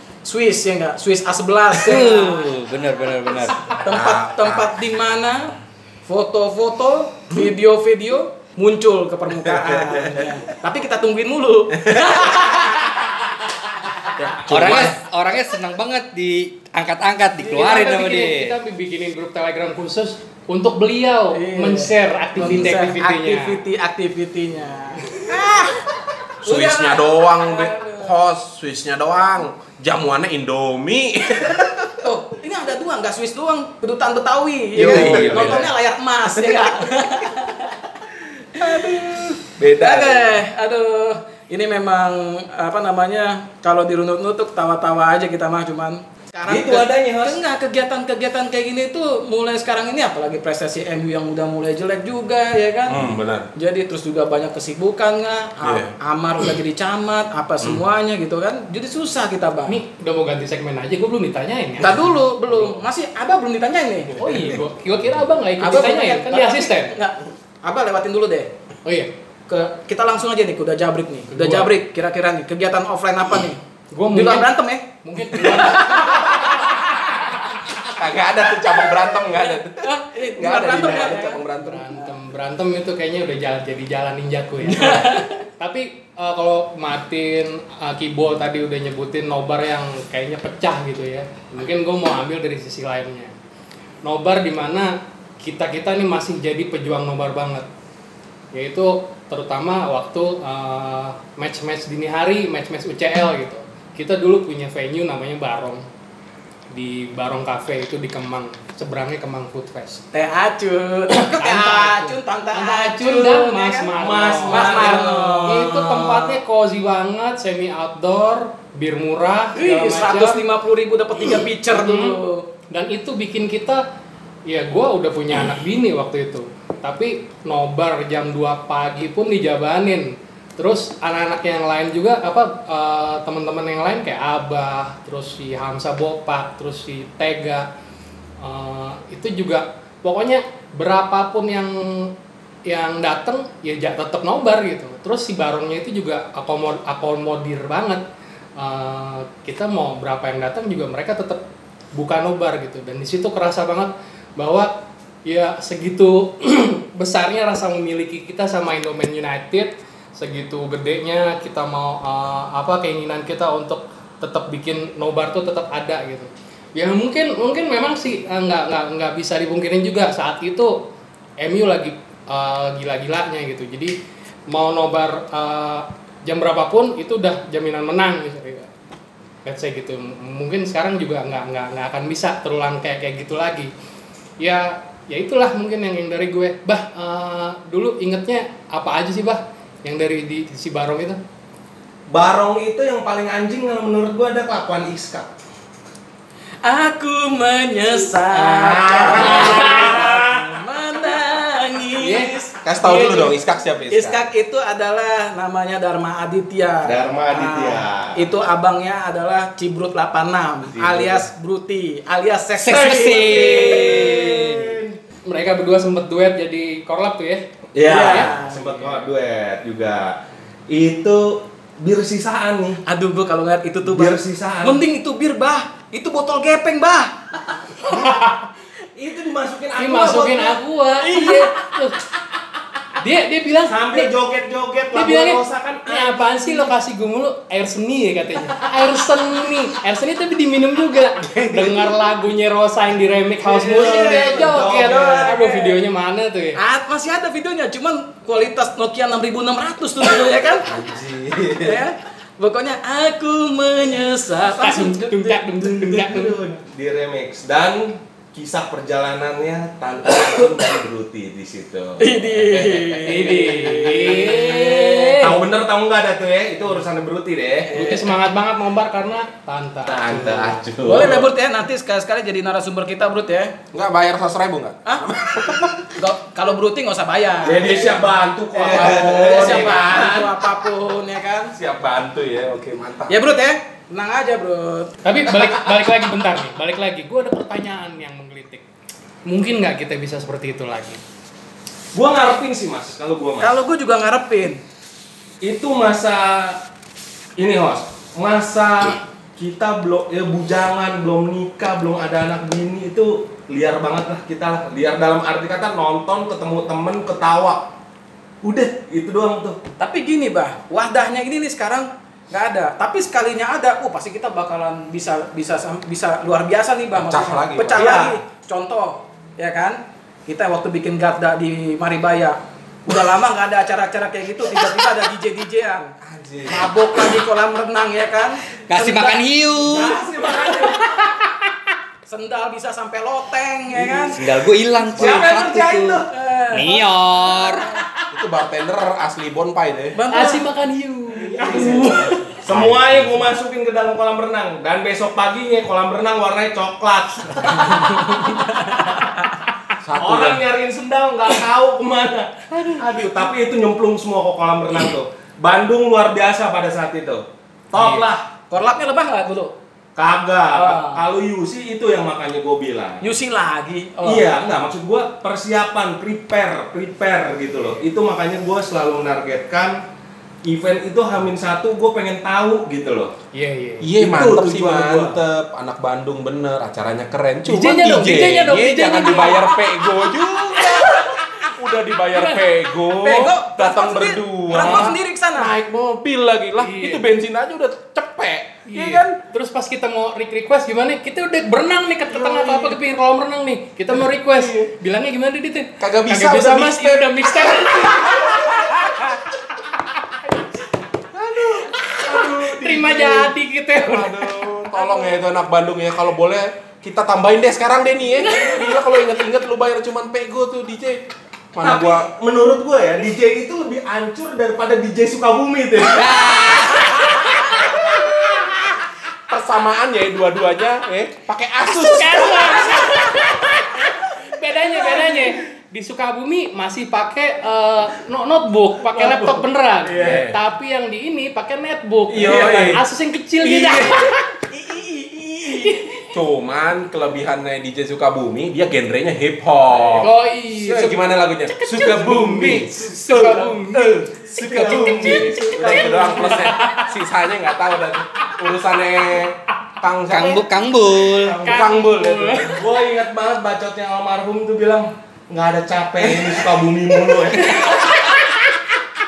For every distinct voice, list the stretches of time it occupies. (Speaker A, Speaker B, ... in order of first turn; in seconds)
Speaker A: 0.2-2.6, 3.6-5.5, 6.0-13.0, 17.4-17.9, 21.3-25.4, 26.4-28.1, 32.0-37.9, 39.8-53.0, 53.5-59.8, 61.8-64.2, 65.6-68.5, 69.5-73.6, 74.1-76.9, 79.3-81.4, 84.6-85.4, 110.1-113.9, 114.5-115.6, 119.5-122.5, 196.6-203.3, 203.9-214.0, 217.8-218.6, 222.8-227.2, 231.1-231.5, 241.6-241.9, 243.7-245.7, 246.6-250.7, 251.6-255.8, 262.0-265.1, 267.7-268.1, 270.8-273.5, 275.9-278.0, 278.6-281.5, 283.1-284.9, 293.4-294.6, 309.8-325.9, 326.4-330.5, 332.1-334.2, 336.1-337.8, 339.9-340.4, 341.4-342.2, 347.6-349.4, 358.5-359.5, 360.5-361.0, 363.0-364.3, 382.9-385.5
Speaker B: 1.8-3.7, 14.2-18.6, 34.8-35.7, 212.6-214.8, 328.7-330.0, 334.1-337.7, 416.2-416.8, 450.1-451.4
Speaker C: 3.8-4.8, 9.8-10.3, 11.8-12.5, 14.2-15.0, 25.2-25.9, 26.4-31.9, 34.8-35.7, 36.4-36.7, 38.6-40.4, 52.9-53.5, 55.6-55.9, 77.8-81.9, 202.6-204.2, 250.7-251.8, 273.7-275.9, 278.6-280.0, 281.5-283.2, 317.0-318.1, 326.0-326.6, 335.0-335.2, 338.1-340.0, 341.4-341.7, 342.5-343.1, 349.8-350.4, 373.8-389.2, 392.1-392.8, 393.9-394.7, 395.8-399.1, 401.1-412.1, 416.1-418.7, 419.3-423.5, 429.9-430.4, 432.1-432.7, 436.1-450.5, 451.1-452.6, 457.5-457.8
Speaker D: 17.6-23.6, 59.7-62.0, 64.2-67.0, 68.8-69.1, 71.3-71.7, 73.9-76.6, 81.6-93.3, 94.0-97.7, 98.5-105.8, 106.7-110.0, 111.2-120.4, 121.7-122.2, 122.7-123.8, 124.5-137.7, 138.4-142.1, 142.7-148.0, 148.6-151.4, 151.9-170.8, 171.4-174.0, 174.5-178.7, 179.4-183.7, 184.4-191.2, 199.3-200.0, 202.0-202.3, 215.2-219.0, 227.9-228.4, 229.8-232.0, 232.9-234.1, 234.9-246.6, 254.5-256.4, 263.0-265.4, 267.7-270.6, 285.0-288.6, 289.2-291.0, 340.1-342.2, 357.8-358.0, 373.3-373.9, 377.4-379.6, 382.1-382.4, 384.6-384.9, 386.6-387.0, 388.7-399.2, 401.8-405.2, 408.3-408.8, 421.6-434.3, 435.6-436.1, 439.9-446.9, 451.4-452.6
Speaker E: 46.5-47.4, 114.0-116.4, 192.1-195.3, 198.3-200.5, 206.8-208.3, 210.7-211.2, 213.1-214.9, 217.7-220.2, 220.7-222.8, 223.9-224.8, 228.9-230.6, 233.7-236.7, 243.4-245.4, 255.8-263.5, 265.1-267.8, 269.8-271.3, 277.4-280.3, 291.9-293.5, 295.4-296.6, 297.4-307.7, 308.4-309.6, 317.7-318.2, 329.6-330.9, 334.9-336.1, 341.4-347.8, 349.9-358.3, 359.9-363.0, 364.0-369.8, 370.4-373.1, 374.0-375.2, 411.6-416.6, 428.9-430.2, 432.1-432.8, 433.4-434.0, 434.5-435.7, 442.4-446.5, 452.5-457.9